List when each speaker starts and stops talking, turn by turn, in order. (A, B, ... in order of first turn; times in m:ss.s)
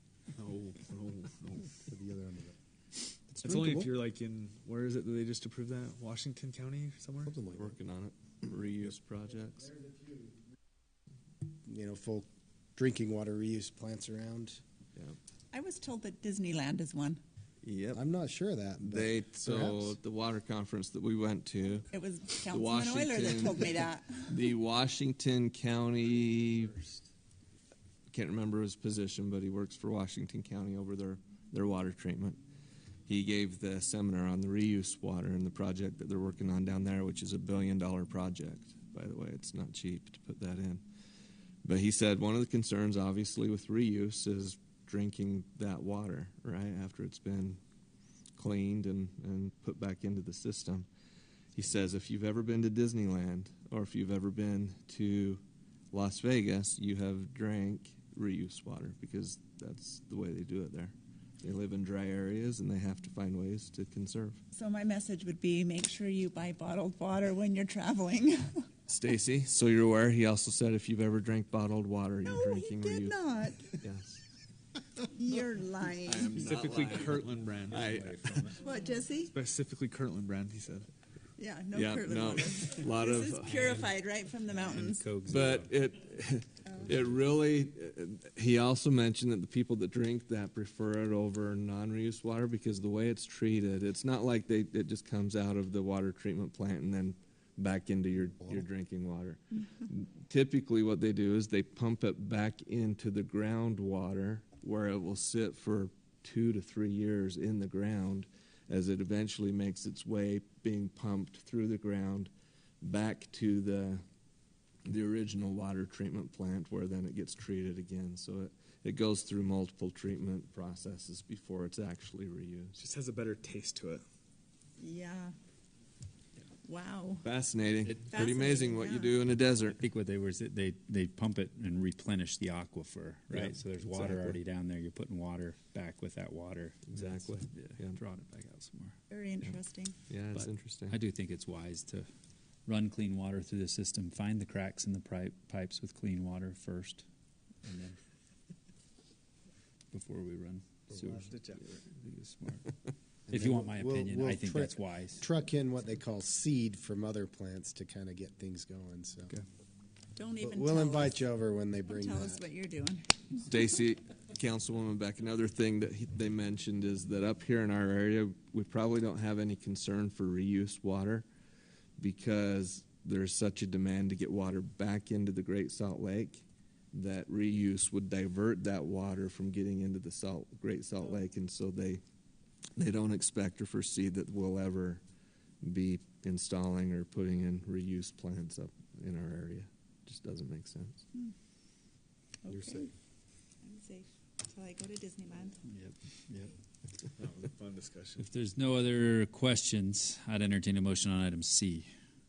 0:00.4-0:01.7 A
0:01.8-0:02.6 B
0:03.3-0:07.4 A
0:03.4-0:03.9 B
0:07.2-0:07.8 B
0:07.5-0:09.7 C
0:09.7-0:10.3 B
0:11.7-0:14.6 B
0:15.5-0:17.2 D
0:17.6-0:18.0 C
0:17.9-0:20.0 B
0:18.8-0:26.9 C
0:21.9-0:24.4 D
0:28.1-0:32.4 C
0:33.1-0:40.8 C
0:41.6-0:47.6 C
0:48.4-0:50.9 C
0:51.5-1:04.4 C
1:04.5-1:08.7 D
1:08.9-1:13.2 C
1:12.2-1:13.7 D
1:13.8-1:14.2 C
1:15.0-1:16.4 D
1:16.0-1:18.5 C
1:16.2-1:18.6 A
1:18.5-1:19.3 D
1:19.3-1:20.9 A
1:21.4-1:25.1 D
1:21.7-1:23.8 C
1:24.6-1:25.7 E
1:25.2-1:52.3 C
1:52.8-1:54.0 C
1:54.8-2:02.8 C
2:02.8-2:04.0 A
2:04.8-2:05.3 D
2:06.6-2:07.2 D
2:07.2-2:09.8 C
2:08.1-2:09.1 D
2:09.8-2:18.9 E
2:13.3-2:14.3 A
2:16.9-2:18.0 C
2:19.1-2:20.0 D
2:20.1-2:21.0 C
2:20.3-2:22.0 E
2:22.7-2:27.0 E
2:27.6-2:28.0 E
2:29.9-2:32.6 E
2:31.2-2:31.8 A
2:33.3-2:39.4 B
2:33.3-2:35.2 E
2:40.2-2:41.2 D
2:40.4-2:42.4 B
2:41.9-2:43.4 D
2:43.4-2:51.2 C
2:52.0-3:02.0 C
3:02.8-3:05.0 C
3:05.6-3:11.1 C
3:12.4-3:12.9 D
3:13.6-3:15.6 D
3:15.6-3:16.5 E
3:17.2-3:18.3 A
3:18.2-3:21.9 E